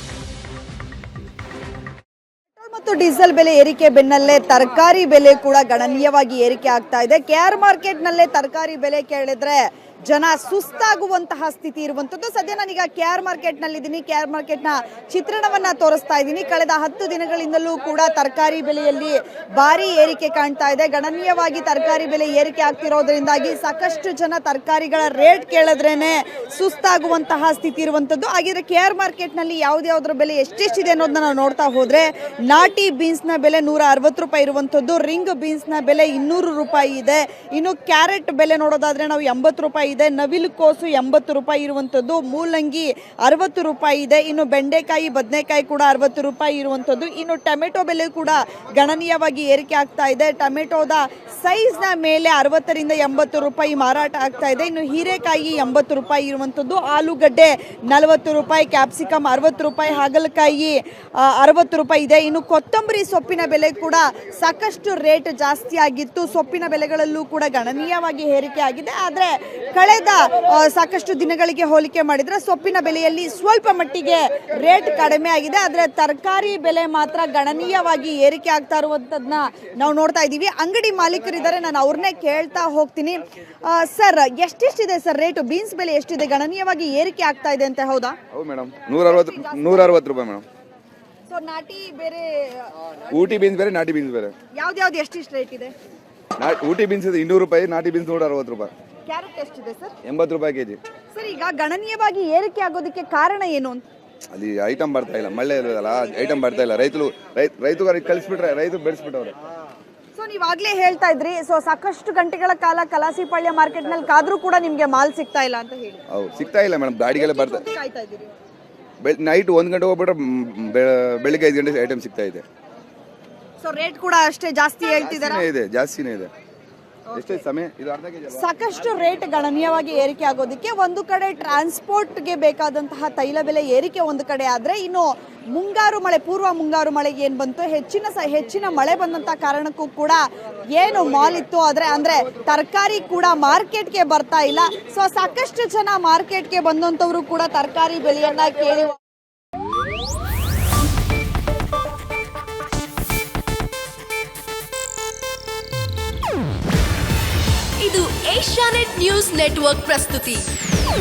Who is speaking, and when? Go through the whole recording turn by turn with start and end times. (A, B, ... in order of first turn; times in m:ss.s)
0:02.6-1:28.2 A
1:28.3-1:30.4 B
1:29.0-1:29.9 A
1:31.3-1:32.7 A
1:33.1-1:34.3 B
1:34.6-1:35.7 A
1:36.4-1:38.7 B
1:39.1-1:40.0 A
1:40.0-1:40.8 B
1:41.1-1:43.8 A
1:44.3-1:49.3 B
1:50.2-1:56.0 A
1:56.1-1:57.6 B
1:57.1-1:58.3 A
1:59.0-2:02.4 B
2:03.6-2:05.5 A
2:05.0-2:06.3 B
2:07.1-2:07.4 A
2:07.1-2:08.4 B
2:08.3-2:20.2 A
2:20.8-2:29.0 A
2:37.8-2:40.5 C